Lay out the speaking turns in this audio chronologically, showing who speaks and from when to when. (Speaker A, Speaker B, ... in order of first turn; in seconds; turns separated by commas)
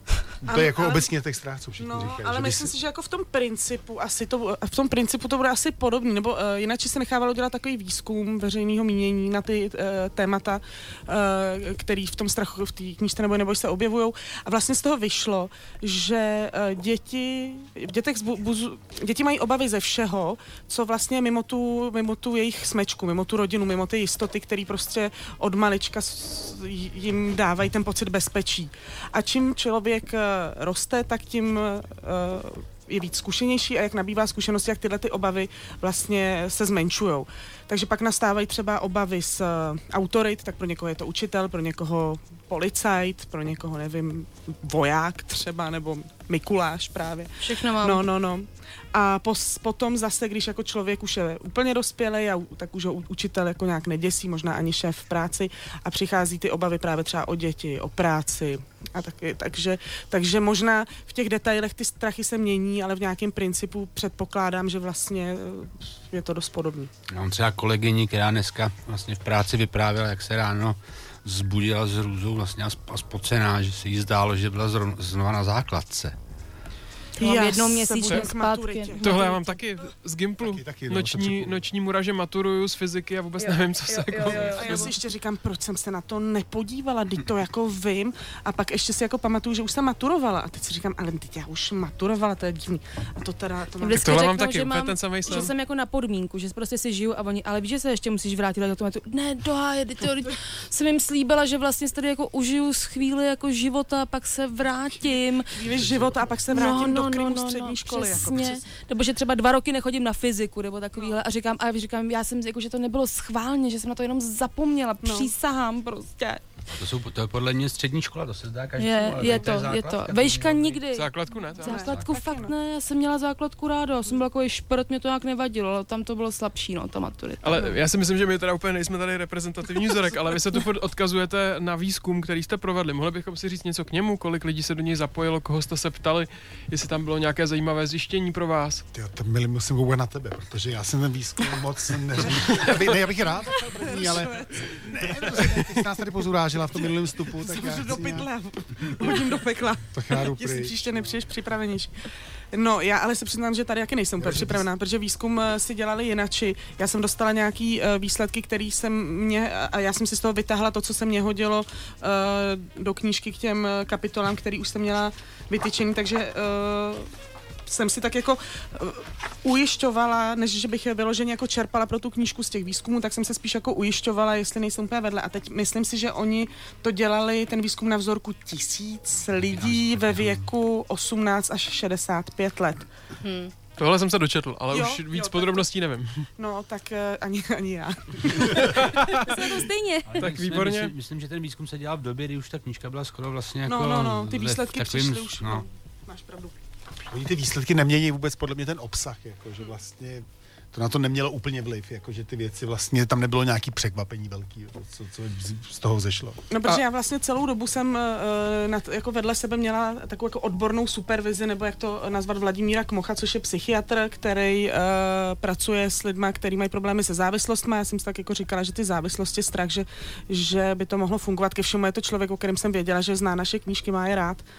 Speaker A: 0.4-2.7, Speaker B: 0.5-1.1, Speaker B: 1.8-66.9, Speaker C: 47.4-48.1, Speaker D: 67.1-76.2, Speaker C: 77.2-79.3, Speaker B: 77.2-79.4, Speaker E: 79.0-85.0, Speaker A: 80.4-81.6, Speaker C: 83.4-84.9, Speaker B: 84.5-94.3, Speaker C: 93.8-105.5, Speaker E: 93.9-95.5, Speaker B: 105.0-108.7, Speaker C: 106.5-116.4, Speaker B: 115.0-115.3, Speaker D: 116.7-120.9, Speaker C: 118.8-127.8, Speaker B: 119.3-119.6, Speaker E: 120.9-121.9, Speaker B: 121.6-122.5, Speaker D: 121.8-122.3, Speaker E: 127.4-138.8, Speaker A: 138.9-148.3, Speaker B: 143.4-145.7, Speaker B: 146.8-167.1, Speaker A: 149.9-151.2, Speaker A: 154.2-154.7, Speaker B: 167.7-182.9, Speaker D: 179.4-180.5, Speaker C: 183.2-183.5, Speaker E: 183.8-186.3, Speaker B: 184.7-185.7, Speaker B: 186.4-188.8, Speaker E: 188.6-189.3, Speaker C: 189.2-190.1, Speaker D: 190.1-195.7, Speaker E: 190.2-190.9, Speaker B: 193.7-196.6, Speaker A: 197.1-206.4, Speaker B: 206.5-224.4